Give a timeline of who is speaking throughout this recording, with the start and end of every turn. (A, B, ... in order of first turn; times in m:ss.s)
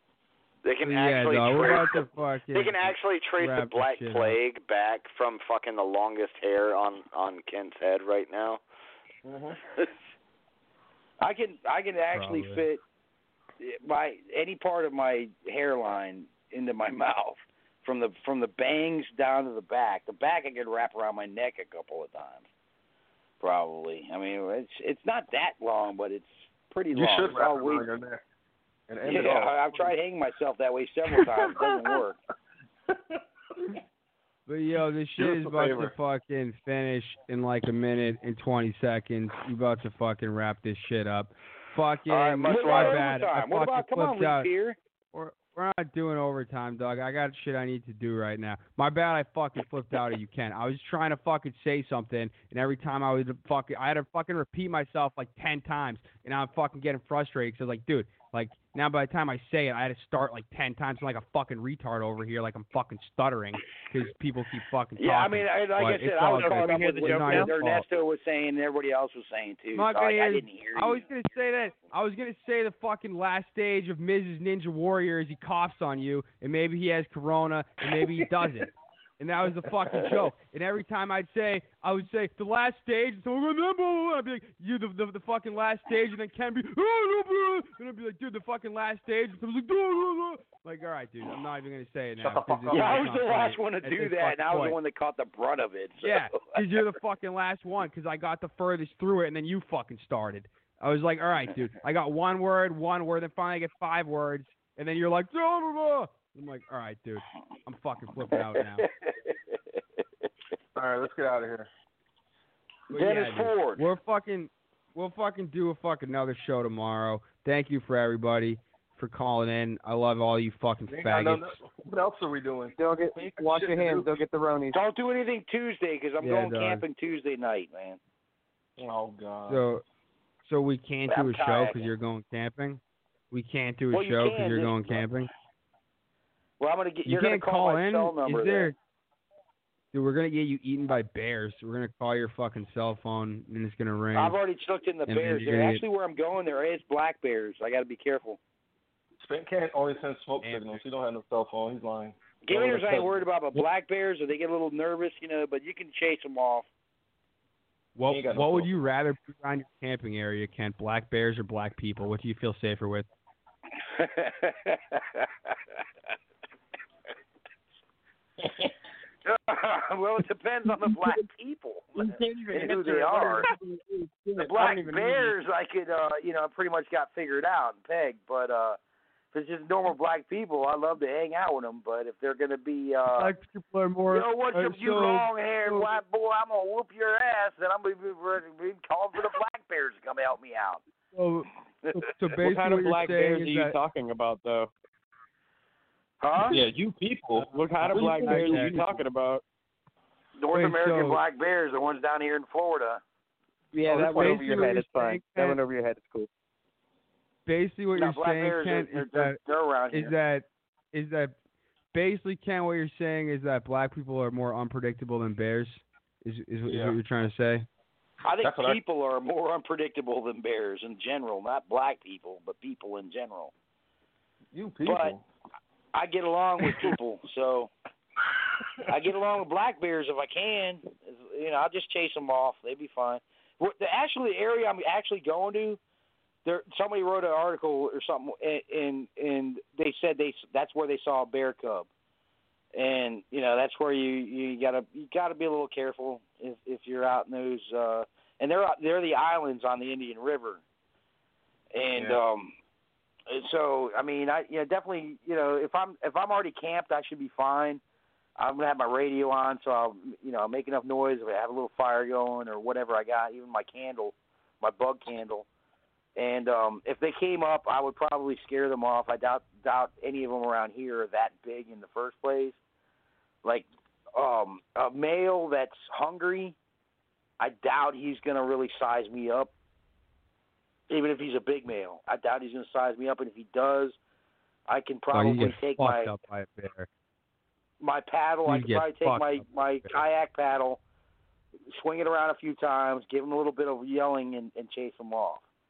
0:00.6-0:08.6 A
0:00.8-0:04.4 B
0:09.2-0:09.6 C
0:11.2-0:12.8 D
0:12.1-0:12.6 B
0:13.6-0:22.5 D
0:23.4-0:27.9 D
0:26.9-0:28.2 C
0:28.9-0:29.9 C
0:29.0-0:32.2 D
0:31.1-0:31.9 C
0:32.9-0:33.8 C
0:34.5-0:44.5 B
0:35.2-0:35.9 C
0:42.1-0:43.1 A
0:42.5-0:44.8 D
0:45.1-1:07.8 B
1:05.0-1:11.1 D
1:06.3-1:07.5 E
1:09.7-1:34.8 B
1:32.2-1:33.2 C
1:32.7-1:36.8 D
1:36.0-1:48.8 B
1:48.3-1:49.6 D
1:50.8-1:51.7 C
1:52.9-1:53.8 D
1:52.9-2:01.6 B
2:00.9-2:04.2 C
2:02.8-2:04.8 E
2:04.7-2:08.0 D
2:06.2-2:06.8 B
2:08.8-2:09.6 C
2:09.5-2:09.8 B
2:10.4-2:12.8 B
2:11.1-2:11.9 D
2:13.3-2:15.3 B
2:13.9-2:14.9 D
2:16.6-2:18.7 D
2:17.0-2:18.8 B
2:19.9-2:24.4 B
2:24.1-2:28.4 D
2:25.1-2:25.8 B
2:29.2-2:33.3 C
2:30.4-2:30.8 B
2:32.4-2:36.7 D
2:38.0-2:43.1 B
2:38.1-2:38.7 C
2:43.9-2:45.5 D
2:49.2-2:53.5 D
2:52.0-2:55.3 E
2:54.4-2:58.8 D
2:59.3-3:03.3 D
3:03.2-3:05.9 B
3:04.1-3:10.8 D
3:11.1-3:13.7 B
3:12.4-3:14.7 E
3:16.2-3:16.6 D
3:16.5-3:19.0 C
3:17.4-3:19.4 E
3:17.8-3:18.8 B
3:20.4-3:23.0 D
3:20.5-3:21.2 B
3:23.7-3:26.3 E
3:23.9-3:25.6 B
3:23.9-3:24.7 C
3:27.4-3:29.4 B
3:27.9-3:30.1 D
3:29.9-3:31.3 B
3:31.9-3:37.7 B
3:36.6-3:37.0 C
3:38.2-3:43.5 D
3:38.4-3:38.8 C
3:44.5-3:45.2 C
3:44.8-3:45.2 D
3:45.9-3:47.7 D
3:48.9-3:55.8 D
3:56.4-4:01.9 D
4:02.7-4:10.6 D
4:11.7-4:12.5 D
4:13.3-4:17.8 D
4:18.4-4:25.5 D
4:26.2-4:32.6 D
4:33.4-4:36.6 D
4:37.4-4:39.5 D
4:40.9-4:44.0 D
4:44.7-4:46.1 D
4:45.1-4:46.9 B
4:47.8-4:50.8 D
4:48.5-4:50.0 B
4:51.7-4:55.4 D